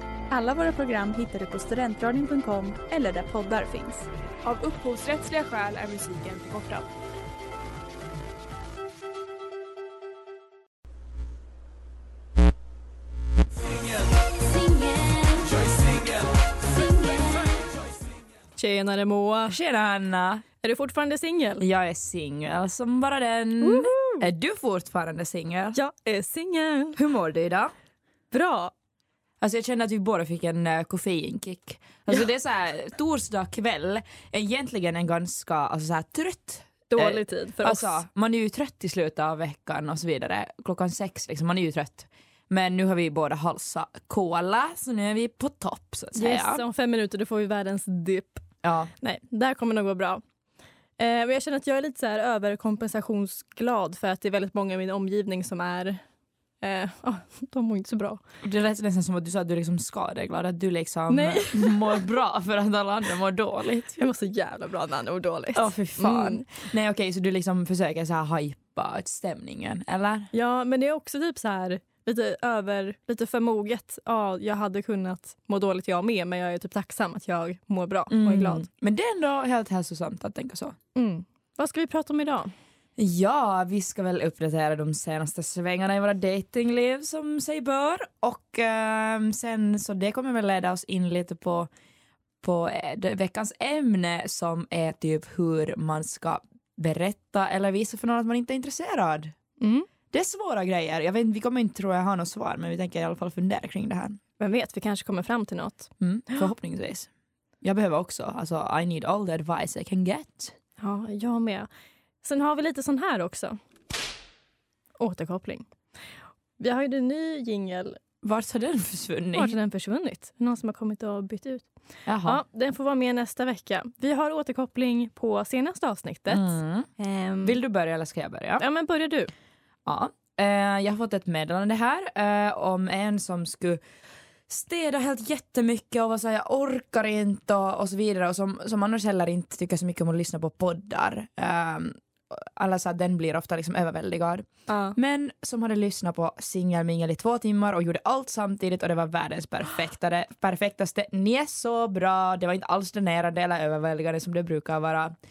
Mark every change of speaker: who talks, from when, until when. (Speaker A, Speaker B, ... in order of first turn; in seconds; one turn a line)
Speaker A: 0.3-4.1
Speaker B: 4.5-6.9
Speaker C: 18.6-19.6
Speaker D: 19.5-20.4
Speaker C: 20.6-21.6
Speaker D: 21.6-25.8
Speaker C: 23.6-24.3
Speaker C: 25.8-27.0
Speaker D: 27.0-27.7
Speaker C: 28.3-28.7
Speaker D: 29.4-46.6
Speaker C: 36.9-38.0
Speaker C: 46.1-48.5
Speaker D: 48.6-48.9
Speaker C: 49.0-50.2
Speaker C: 51.0-56.0
Speaker C: 56.6-58.2
Speaker D: 58.4-64.0
Speaker C: 61.1-62.0
Speaker C: 64.0-66.5
Speaker D: 65.5-70.3
Speaker C: 70.3-78.7
Speaker D: 78.1-80.8
Speaker C: 81.0-82.5
Speaker D: 83.0-91.7
Speaker D: 92.4-99.3
Speaker C: 99.6-99.9
Speaker D: 100.1-104.2
Speaker C: 104.4-106.5
Speaker D: 106.0-107.1
Speaker D: 107.6-110.5
Speaker C: 110.8-111.7
Speaker C: 112.2-113.6
Speaker C: 115.0-115.7
Speaker C: 116.6-118.0
Speaker D: 118.2-119.5
Speaker C: 119.3-121.7
Speaker D: 122.1-122.4
Speaker C: 122.2-127.6
Speaker D: 126.3-126.9
Speaker D: 127.4-128.6
Speaker C: 128.6-129.3
Speaker D: 129.9-133.8
Speaker D: 134.5-155.2
Speaker C: 144.7-144.9